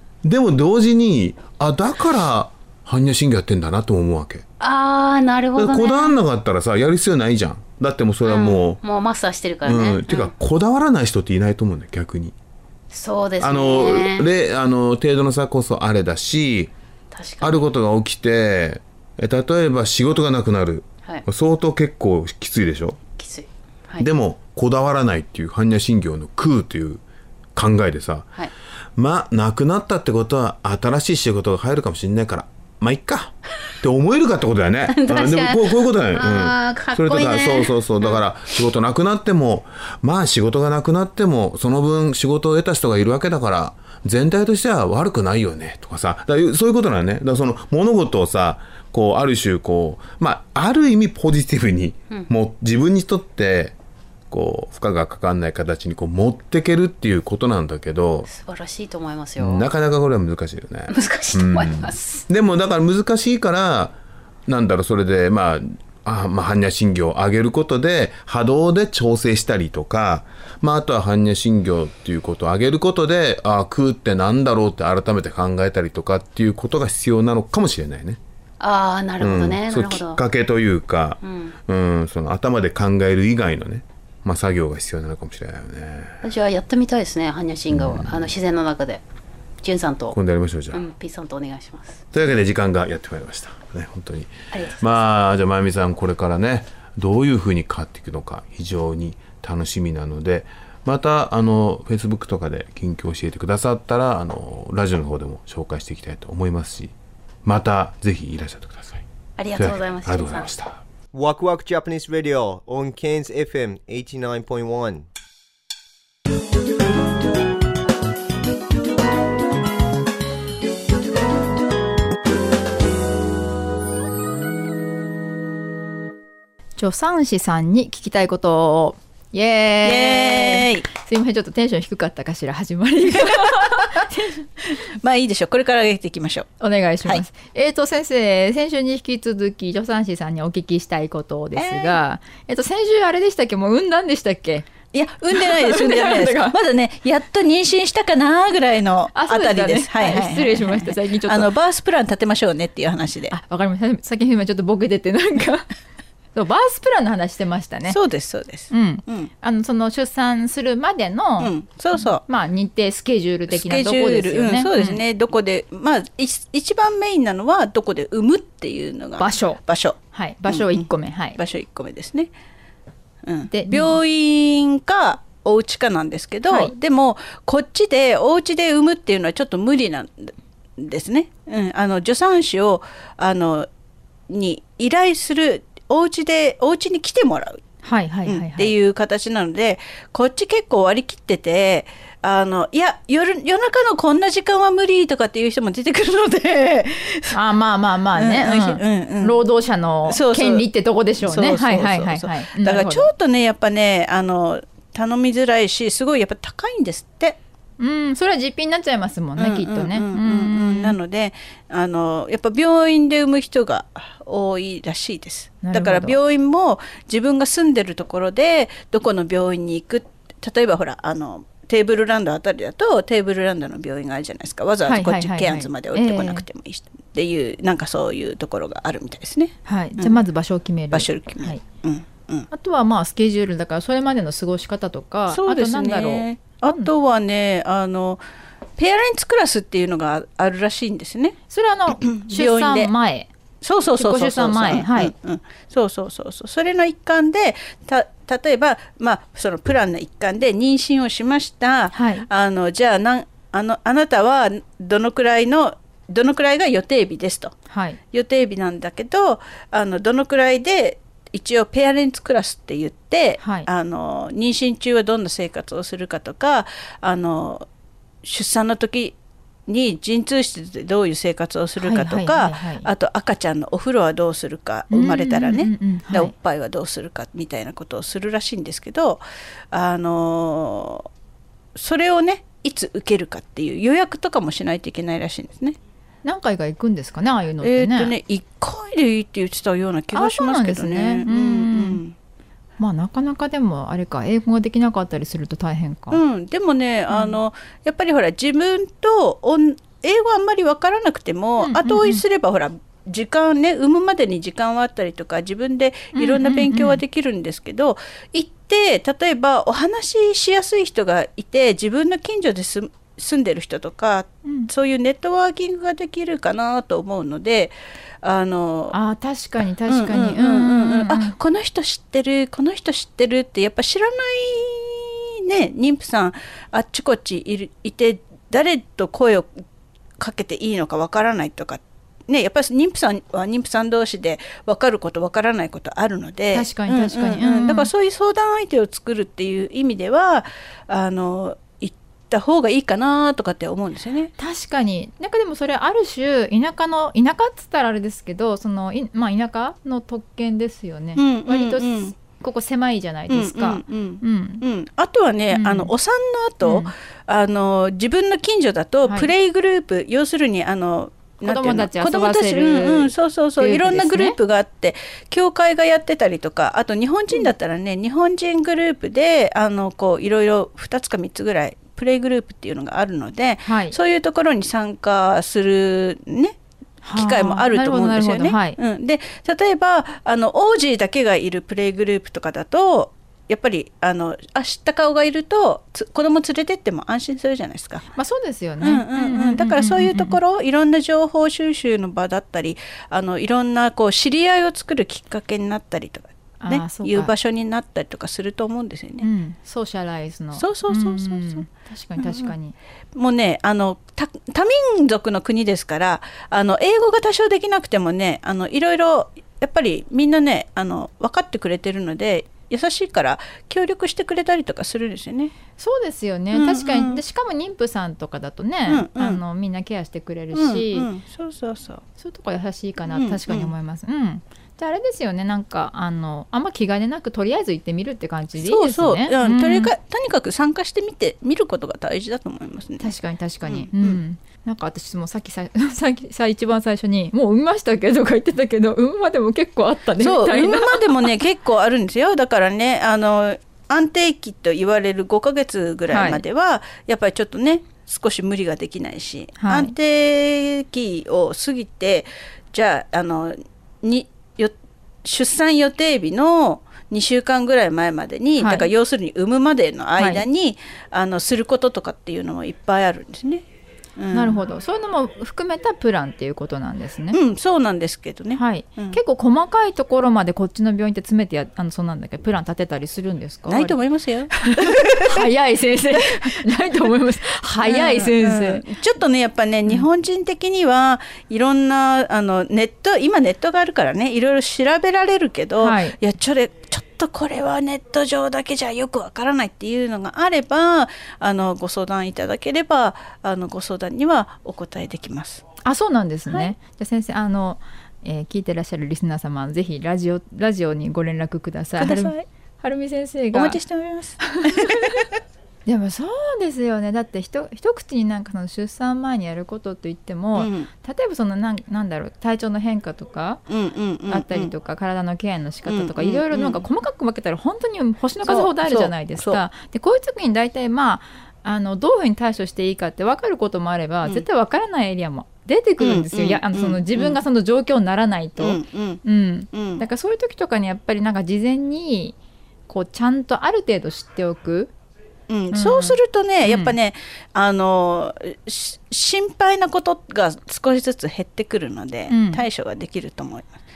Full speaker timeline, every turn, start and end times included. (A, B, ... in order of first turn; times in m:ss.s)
0:00.2-0:04.4 A
0:04.6-0:06.2 B
0:05.6-0:08.8 A
0:08.2-0:10.3 B
0:09.6-0:12.4 A
0:12.9-0:14.3 B
0:13.4-0:16.7 A
0:17.1-0:17.6 B
0:17.4-0:23.0 A
0:23.2-0:24.1 B
0:24.0-0:27.0 A
0:27.6-0:28.3 A
0:29.0-0:53.7 A
0:34.9-0:38.2 B
0:54.3-0:58.3 A
0:58.3-0:59.6 B
0:59.4-1:03.9 A
1:00.9-1:02.2 B
1:04.5-1:18.2 A
1:18.6-1:20.2 B
1:19.2-1:26.2 A
1:21.2-1:21.6 B
1:26.2-1:29.0 B
1:27.7-1:28.3 A
1:29.6-1:30.2 B
1:30.1-1:30.8 A
1:30.7-1:32.0 B
1:32.1-1:46.9 A
1:34.5-1:34.8 B
1:47.4-1:49.0 A
1:49.4-1:50.5 B
1:49.6-1:50.8 A
1:51.1-1:55.0 C
2:06.8-2:14.4 D
2:09.8-2:10.9 E
2:13.2-2:13.7 E
2:15.0-2:16.5 E
2:16.6-2:24.7 D
2:21.6-2:22.0 E
2:24.9-2:33.4 E
2:25.3-2:26.6 D
2:29.1-2:31.5 D
2:33.3-2:35.6 D
2:36.4-2:38.0 D
2:37.9-2:39.3 E
2:38.7-2:45.0 D
2:41.4-2:42.2 E
2:43.5-2:52.3 E
2:49.2-2:51.4 D
2:53.2-3:03.7 E
2:53.5-2:54.0 D
2:56.5-2:56.7 D
3:04.3-3:07.6 E
3:07.8-3:08.7 D
3:08.3-3:17.4 E
3:17.3-3:23.1 D
3:18.1-3:19.4 E
3:20.1-3:20.6 E
3:21.2-3:27.4 E
3:27.8-3:31.0 D
3:29.4-3:50.2 E
3:35.6-3:36.2 D
3:44.9-3:46.4 D
3:49.6-3:51.6 D
3:50.9-3:52.5 E
3:52.5-3:56.9 D
3:55.3-3:58.2 E
3:58.8-4:01.4 E
4:01.5-4:03.3 D
4:01.9-4:02.9 E
4:03.6-4:17.6 E
4:03.9-4:05.1 D
4:11.9-4:12.2 D
4:17.7-4:18.0 D
4:18.1-4:27.6 E
4:23.4-4:23.7 D
4:28.2-4:29.2 E
4:29.7-4:41.1 E
4:31.8-4:32.9 D
4:34.9-4:36.3 D
4:41.8-4:45.8 E
4:46.2-4:48.1 D
4:47.6-4:52.1 E
4:50.1-4:52.0 D
4:52.8-4:56.2 D
4:56.1-5:19.0 E
4:57.1-4:57.4 D
5:01.6-5:02.2 D
5:06.1-5:07.0 D
5:14.4-5:14.7 D
5:18.9-5:21.3 D
5:19.9-5:29.5 E
5:30.2-5:44.3 E
5:36.5-5:37.9 D
5:44.4-5:54.6 D
5:51.2-5:52.2 E
5:53.3-6:16.6 E
5:55.5-5:55.9 D
5:56.6-5:56.9 D
5:59.1-5:59.3 D
6:01.4-6:04.4 D
6:13.6-6:14.0 D
6:17.0-6:18.8 D
6:17.1-6:28.0 E
6:28.1-6:30.4 D
6:28.8-6:39.2 E
6:36.6-6:37.3 D
6:39.2-6:42.7 D
6:40.6-6:41.6 E
6:42.2-6:42.5 E
6:43.1-6:55.6 E
6:55.8-7:01.1 D
6:56.5-6:57.2 E
6:58.9-6:59.4 E
7:00.5-7:02.0 E
7:02.2-7:09.9 D
7:03.1-7:03.7 E
7:08.6-7:13.1 E
7:13.0-7:21.1 D
7:13.6-7:14.2 E
7:20.2-7:43.6 E
7:26.1-7:26.4 D
7:29.6-7:29.9 D
7:38.6-7:38.9 D
7:40.2-7:40.4 D
7:44.2-7:44.6 E
7:44.3-7:47.4 D
7:47.3-7:49.2 E
7:48.6-7:54.0 D
7:53.7-7:55.4 E
7:54.5-7:58.8 D
7:57.8-8:15.6 E
8:05.8-8:06.2 D
8:15.8-8:23.8 D
8:22.0-8:22.4 E
8:23.5-8:25.2 E
8:24.4-8:25.1 D
8:25.9-8:33.6 D
8:30.6-8:30.9 E
8:33.7-8:34.7 E
8:34.3-8:52.4 D
8:35.9-8:36.8 E
8:38.4-8:39.6 E
8:46.0-8:47.4 E
8:48.6-8:50.0 E
8:52.9-8:54.9 D
8:55.5-9:03.7 E
8:55.7-8:57.0 D
9:02.3-9:02.6 D